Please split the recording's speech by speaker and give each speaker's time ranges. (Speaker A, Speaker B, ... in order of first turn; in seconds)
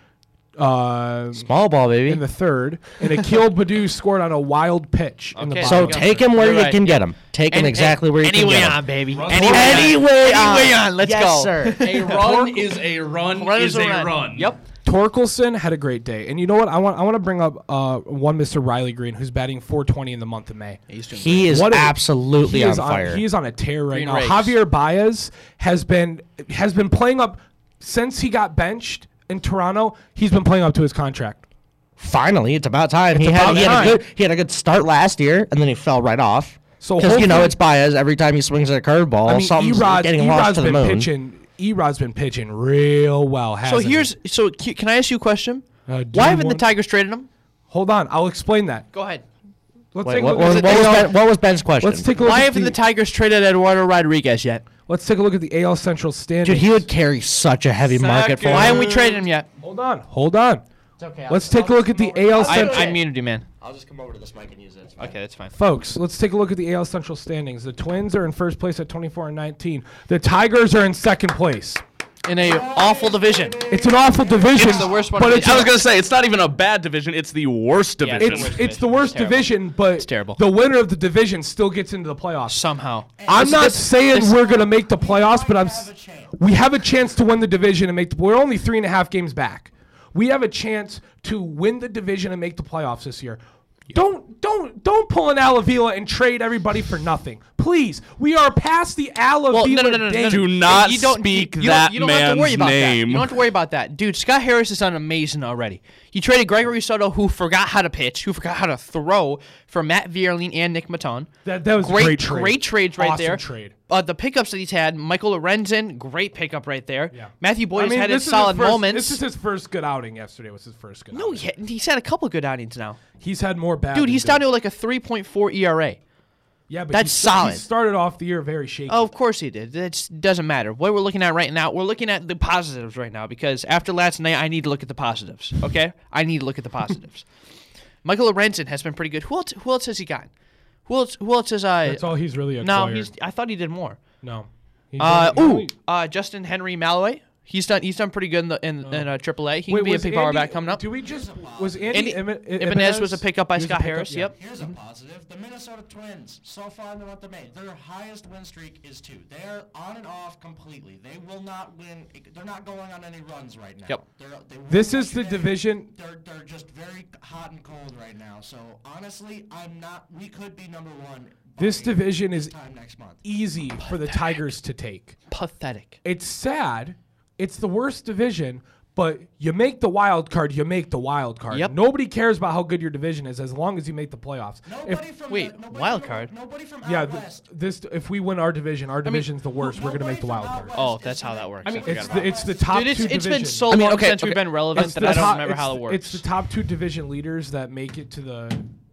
Speaker A: 0.6-1.5, 2.1-6.3, 14.8-20.8, 21.5-31.4, 33.1-34.0, 36.8-37.6, 39.2-44.1, 45.9-46.7, 47.7-48.9, 49.9-51.1, 51.8-52.8, 54.9-56.9, 59.6-60.6, 61.3-63.0, 65.5-71.8, 73.7-75.8, 78.2-82.6, 83.3-100.5, 111.5-113.8, 117.1-121.5, 123.2-124.5, 126.7-129.1, 141.8-143.1, 144.2-145.7, 148.8-149.1, 149.7-154.3, 164.7-165.9, 171.6-172.5, 173.2-175.2, 176.0-185.1, 186.8-190.8, 191.8-193.8, 194.7-198.7
Speaker B: 1.4-2.2, 5.6-11.9, 21.1-23.2, 32.0-41.1, 50.0-52.1, 56.4-58.9, 61.0-63.0, 63.6-65.1
Speaker C: 5.3-12.5, 13.3-14.6, 20.9-21.6, 23.9-24.6, 33.4-34.0, 43.6-47.3, 48.9-49.2, 50.4-51.1, 52.2-54.6, 58.4-59.5, 62.4-63.5, 65.0-65.6, 72.2-73.6, 74.5-75.8, 78.0-80.4, 82.5-84.4, 99.5-119.2, 121.1-123.0, 123.9-126.0, 126.9-127.6, 128.9-137.2, 138.0-140.3, 140.9-142.1, 142.6-144.0, 145.0-150.9, 151.9-154.7, 173.8-174.3, 175.3-176.0, 185.3-186.3, 190.7-196.2
Speaker D: 9.1-10.0, 11.8-14.6, 57.9-59.2, 75.2-78.6, 100.3-103.4, 189.0-189.3, 191.7-191.9, 193.7-195.4
Speaker E: 61.6-63.0, 63.6-64.8, 72.3-75.1, 83.2-86.4, 151.0-152.0, 154.3-173.2, 184.7-187.4, 189.6-193.0